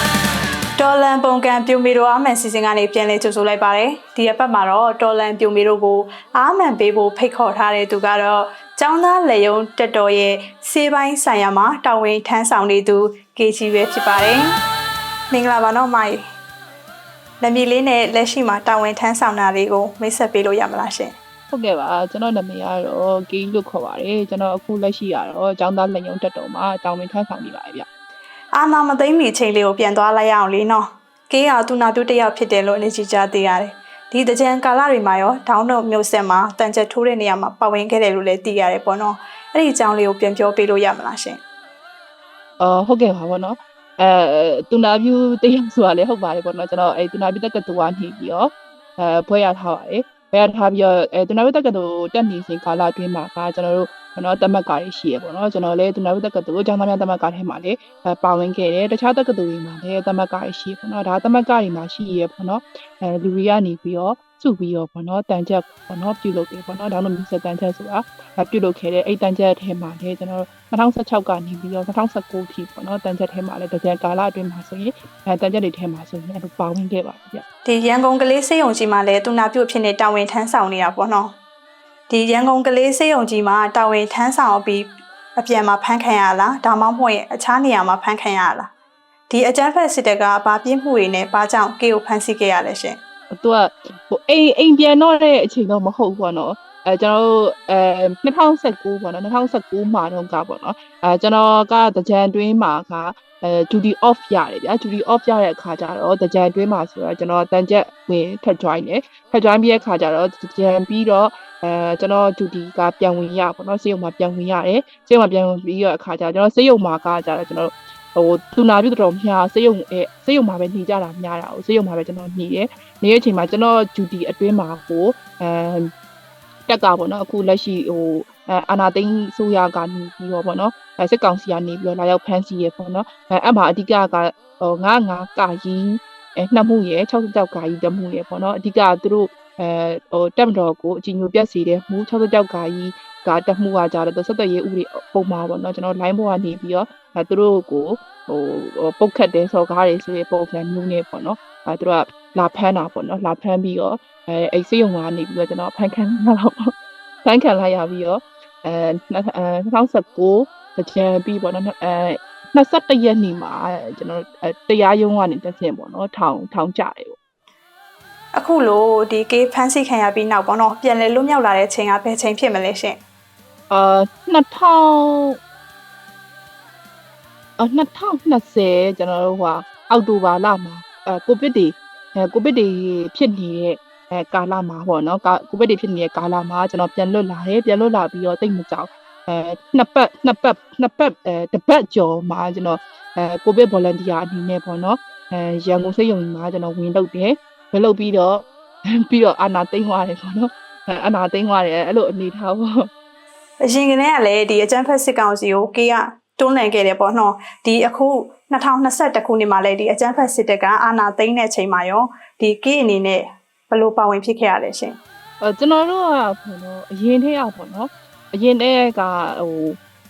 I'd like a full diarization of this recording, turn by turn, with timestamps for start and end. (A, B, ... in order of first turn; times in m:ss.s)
0:00.8-0:14.5 A
0:15.3-0:16.2 A
0:17.4-0:21.1 A
0:21.5-0:27.9 B
0:28.5-0:41.4 A
0:42.6-1:17.4 B
1:17.6-1:21.3 A
1:22.1-1:28.7 A
1:29.3-1:33.0 A
1:33.3-2:05.9 B
2:06.7-2:36.7 B
2:37.2-2:47.2 B
2:48.4-2:53.0 A
2:53.7-2:55.4 B
2:57.6-3:22.9 B
3:23.6-3:35.0 A
3:35.4-3:39.8 B